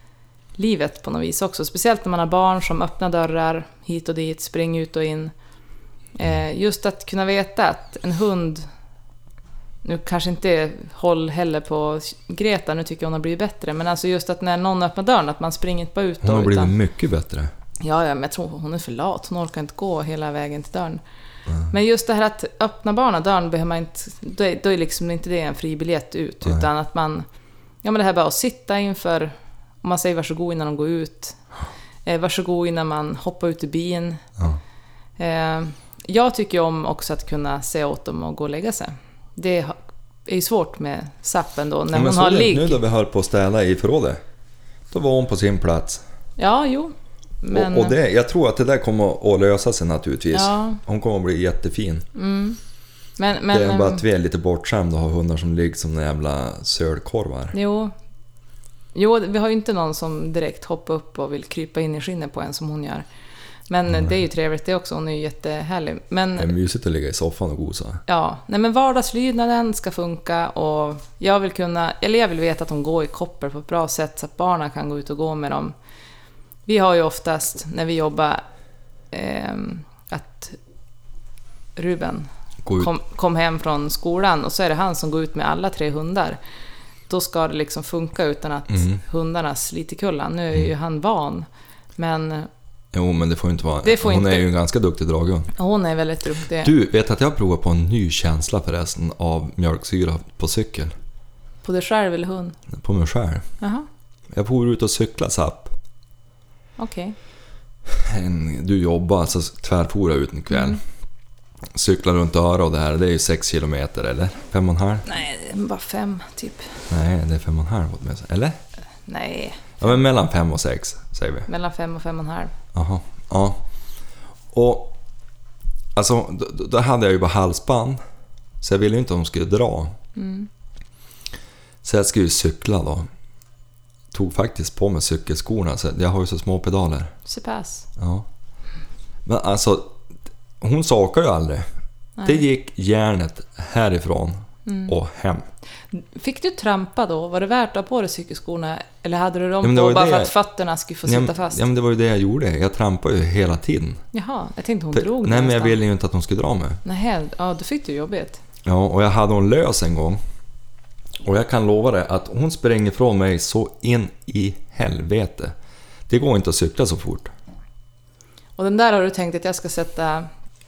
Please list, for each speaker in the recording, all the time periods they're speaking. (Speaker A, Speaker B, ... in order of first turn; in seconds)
Speaker A: 0.6-5.3, 6.2-8.7, 9.8-16.7, 17.8-21.0, 21.7-27.2, 27.8-31.4, 32.0-34.2, 35.2-42.8, 46.4-48.0, 50.3-50.8, 52.1-52.6, 53.2-54.0, 57.5-57.9, 58.9-63.0, 63.7-66.5, 68.1-75.7, 76.7-78.4, 79.1-80.6, 81.8-86.4, 87.1-92.5, 93.8-94.5, 95.5-96.7, 101.6-102.5, 103.6-103.9, 106.8-107.2, 110.5-110.8, 115.0-116.8, 119.1-120.0, 121.5-122.5, 130.1-130.5, 137.2-137.9, 142.2-142.4, 144.7-144.9, 145.9-151.6, 154.1-155.8, 156.8-158.4, 168.6-170.3
Speaker B: 16.2-17.5, 41.9-44.2, 44.9-46.0, 47.5-52.0, 53.5-57.5, 66.4-68.0, 82.6-82.9, 88.7-89.0, 92.9-95.5, 96.6-100.9, 102.7-103.5, 104.3-105.7, 107.9-110.8, 111.7-115.1, 116.9-118.6, 119.8-121.5, 122.7-123.6, 124.5-124.9, 126.0-128.0, 128.6-129.9, 131.8-133.1, 134.1-137.1, 138.0-138.2, 139.2-139.9, 140.6-141.7, 142.2-145.4, 149.6-150.3, 151.1-154.0, 154.9-156.8, 158.7-160.2, 161.2-165.5, 166.1-167.3